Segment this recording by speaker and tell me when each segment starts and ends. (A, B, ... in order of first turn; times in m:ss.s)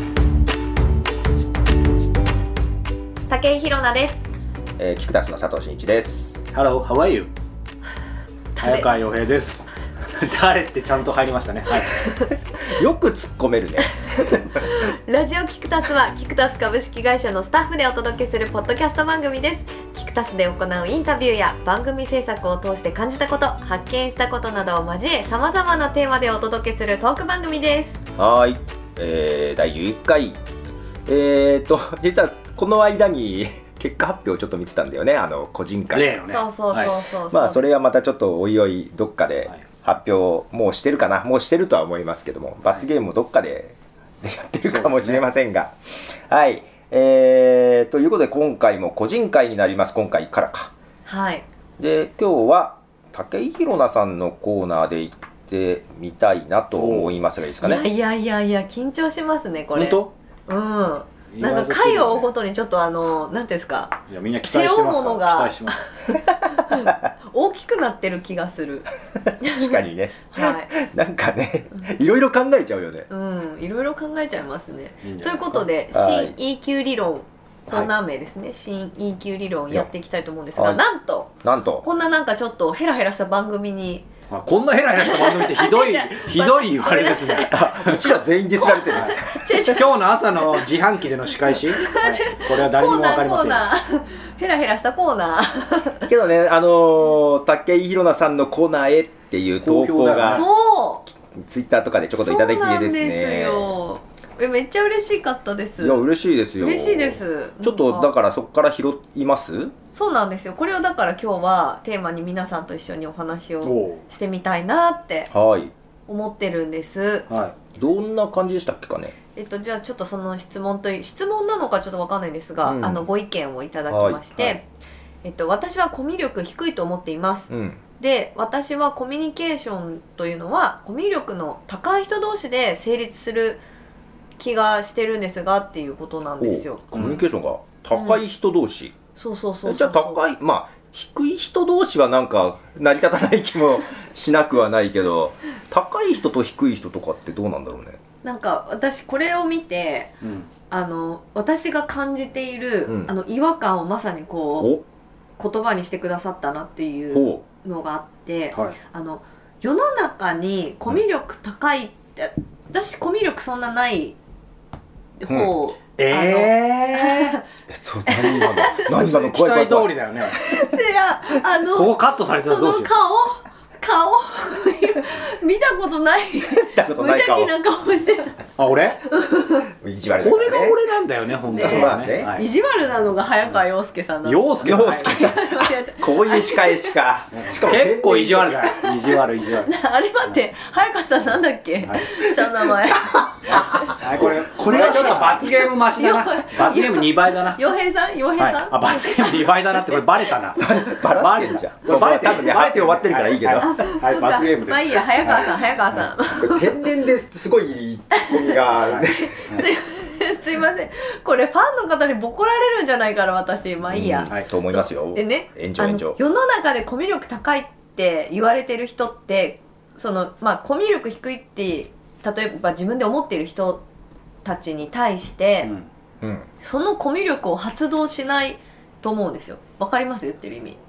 0:03.3-0:04.2 A
0:04.8-0:06.4 B
0:06.5-0:07.3 C
0:08.6-0:08.9 A
0:08.6-0:12.1 C
0:12.6-0:14.6 B
0:14.2-0:28.0 A
0:28.2-0:30.4 B
0:31.0-0:36.1 B
0:35.9-0:36.9 C
0:36.2-0:37.7 A
0:37.3-0:45.7 B
0:44.7-0:45.2 C
0:46.3-0:50.7 B
0:51.0-0:51.4 A
0:51.8-0:57.8 B
0:56.7-0:57.1 C
0:57.6-1:08.9 A
0:59.7-1:00.1 C
1:01.3-1:02.3 C
1:04.1-1:05.8 C
1:09.4-1:09.8 A
1:09.4-1:13.1 B
1:10.3-1:10.8 A
1:13.1-1:24.1 A
1:15.0-1:15.7 C
1:15.9-1:16.3 B
1:20.5-1:20.8 B
1:21.4-1:21.8 B
1:24.3-1:28.1 C
1:25.0-1:27.6 A
1:27.4-1:29.7 B
1:28.5-1:30.6 A
1:28.9-1:29.2 C
1:29.7-1:33.7 C
1:31.7-1:36.1 A
1:36.1-1:40.5 B
1:39.6-1:40.5 C
1:40.2-1:41.1 A
1:41.3-1:43.8 B
1:42.2-1:46.0 A
1:45.8-1:49.7 B
1:46.6-1:48.1 A
1:49.9-1:55.3 A
1:53.6-1:54.0 C
1:55.3-1:55.7 B
1:56.1-1:57.3 A
1:57.3-1:57.5 C
1:57.8-1:59.1 B
1:59.3-2:04.6 A
2:02.6-2:03.0 B
2:03.9-2:04.5 B
2:05.2-2:13.6 A
2:07.5-2:07.8 B
2:14.4-2:16.9 A
2:16.4-2:19.0 B
2:16.9-2:17.2 C
2:17.9-2:18.2 A
2:19.2-2:20.2 A
2:19.6-2:28.0 B
2:28.2-2:30.2 A
2:30.2-2:30.5 C
2:30.7-2:34.7 A
2:32.9-2:33.1 B
2:35.4-2:44.2 A
2:37.1-2:37.4 B
2:45.2-2:47.4 A
2:46.0-2:47.4 C
2:47.7-2:49.9 B
2:48.0-2:48.9 A
2:48.8-2:50.4 C
2:50.3-2:58.4 A
2:51.7-2:52.9 C
2:56.5-2:57.5 B
2:58.6-2:59.0 C
2:59.1-2:59.7 A
2:59.8-3:00.8 B
3:00.2-3:02.5 C
3:01.5-3:06.9 A
3:01.5-3:02.3 B
3:04.2-3:05.1 C
3:04.6-3:08.7 B
3:07.3-3:09.7 C
3:09.6-3:14.0 A
3:11.8-3:12.1 C
3:13.1-3:15.5 B
3:13.5-3:17.6 C
3:14.7-3:20.7 A
3:18.4-3:25.4 C
3:20.6-3:23.8 B
3:23.6-3:26.9 A
3:26.4-3:29.3 B
3:28.1-3:43.8 A
3:28.7-3:29.6 C
3:33.9-3:36.2 B
3:44.4-3:45.7 A
3:45.6-3:45.9 C
3:46.2-3:46.5 B
3:46.6-3:50.8 A